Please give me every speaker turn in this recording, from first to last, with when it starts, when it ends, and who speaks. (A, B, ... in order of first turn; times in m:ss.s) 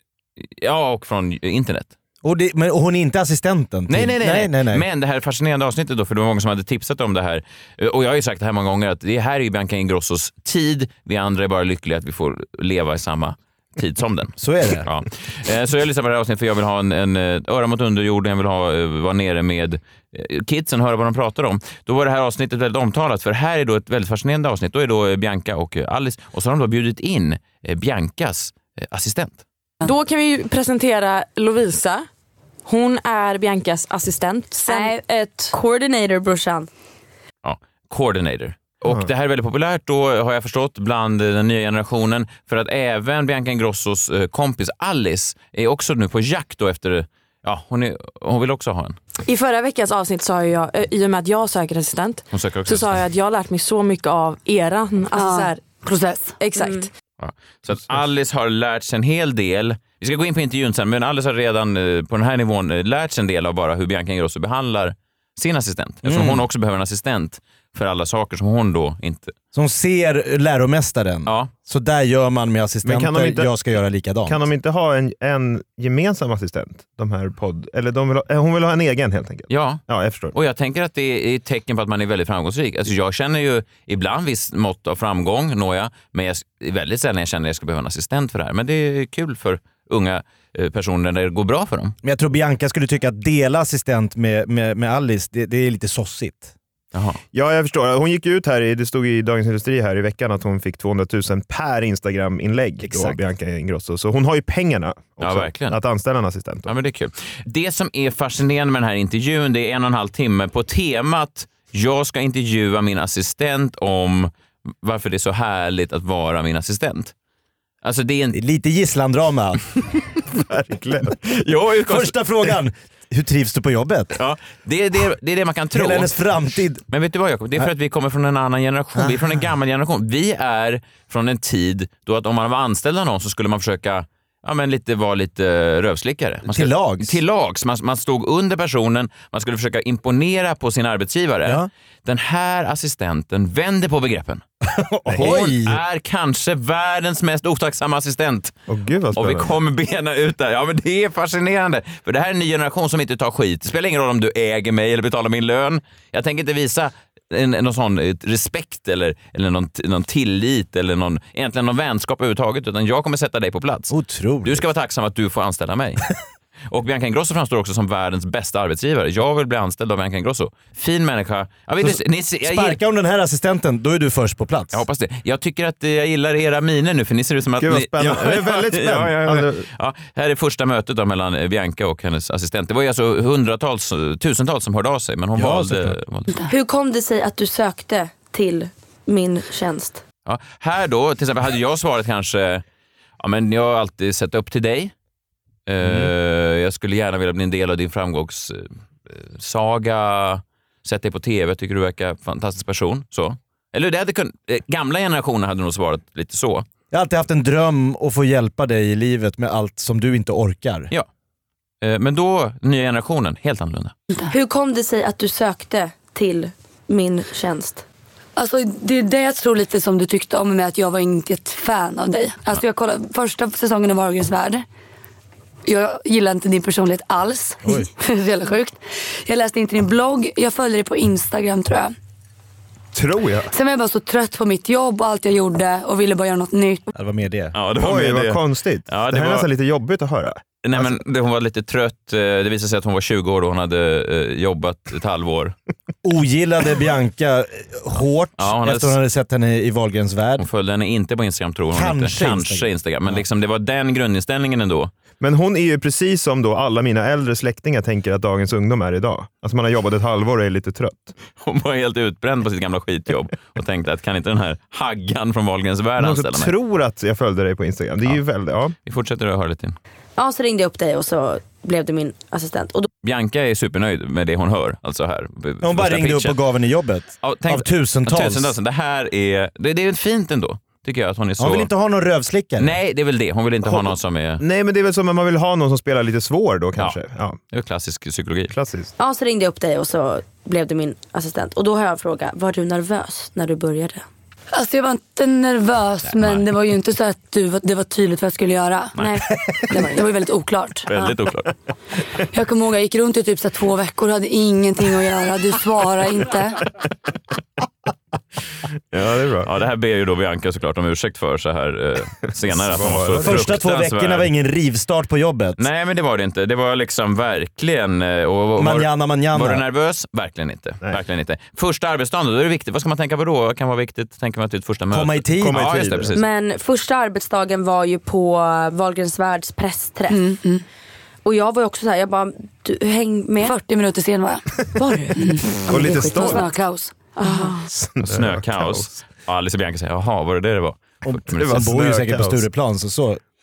0:00.4-0:01.9 A
0:02.2-0:04.9 B
0:03.9-0:29.4 A
0:14.4-0:14.9 B
0:29.8-0:32.1 C
0:32.7-0:35.5 C
0:34.6-0:34.9 D
0:34.7-0:35.0 E
0:35.5-0:36.7 E
0:37.4-0:49.0 A
0:49.2-0:55.8 C
0:52.3-0:53.0 A
0:55.1-0:56.4 D
0:56.4-0:56.9 C
0:56.6-0:56.9 E
0:57.2-1:09.4 A
1:06.0-1:06.4 B
1:09.5-1:14.5 B
1:11.3-1:11.5 A
1:12.8-1:13.6 F
1:14.3-1:20.4 F
1:19.5-1:19.8 A
1:20.3-1:32.0 A
1:32.0-1:36.5 B
1:36.9-1:37.2 A
1:37.3-1:46.7 F
1:42.8-1:43.2 B
1:45.2-1:45.8 A
1:46.7-1:54.3 A
1:54.8-1:57.1 A
1:57.8-1:58.4 A
1:58.3-1:59.6 B
2:00.4-2:01.2 F
2:01.2-2:02.2 A
2:01.9-2:04.2 B
2:04.2-2:06.2 A
2:05.7-2:06.8 B
2:06.9-2:24.4 A
2:09.0-2:09.3 B
2:16.5-2:17.2 B
2:24.6-2:25.8 B
2:25.1-2:25.4 F
2:25.2-2:28.5 A
2:28.7-2:29.5 F
2:29.2-2:46.1 A
2:43.9-2:44.7 B
2:46.7-2:52.8 A
2:51.8-2:54.8 B
2:54.7-3:06.3 A
2:57.6-2:59.7 F
3:05.4-3:06.0 B
3:06.5-3:10.0 E
3:10.3-3:12.6 A
3:13.2-3:14.9 A
3:15.7-3:26.7 A
3:26.9-3:30.9 B
3:31.8-3:33.9 A
3:34.3-3:37.8 E
3:38.4-3:44.6 D
3:45.7-3:51.9 D
3:47.6-3:47.9 B
3:52.9-3:53.5 F
3:53.5-3:56.8 D
3:56.9-3:57.6 B
3:57.5-3:59.5 A
3:57.8-4:00.4 F
4:00.6-4:05.6 A
4:06.0-4:10.5 B
4:08.4-4:09.0 A
4:10.4-4:14.9 A
4:11.7-4:13.2 B
4:15.2-4:21.1 F
4:21.4-4:26.5 A
4:26.0-4:28.8 F
4:28.8-4:29.8 A
4:30.2-4:32.9 E
4:33.0-4:36.4 A
4:35.6-4:38.6 B
4:37.2-4:41.7 A
4:41.4-4:42.8 B
4:42.6-4:44.4 A
4:43.6-4:47.4 F
4:47.5-4:48.5 A
4:48.5-4:48.9 F
4:49.0-4:54.0 E
4:54.5-4:59.0 D
4:59.7-5:00.9 D
4:59.7-5:00.0 E
5:00.9-5:01.5 A
5:02.3-5:06.6 D
5:08.9-5:09.5 F
5:09.4-5:14.3 A
5:12.5-5:13.5 F
5:13.1-5:15.6 B
5:15.6-5:26.3 A
5:18.6-5:19.6 B
5:24.9-5:25.8 B
5:25.4-5:26.1 F
5:26.1-5:30.3 E
5:30.1-5:30.6 D
5:31.2-5:33.6 E
5:33.4-5:34.4 D
5:34.9-5:36.5 E
5:35.1-5:37.5 D
5:35.7-5:36.4 F
5:37.2-5:37.6 C
5:37.2-5:37.5 E
5:37.7-5:38.9 F
5:38.0-5:41.6 A
5:41.0-5:43.2 B
5:41.3-5:42.4 F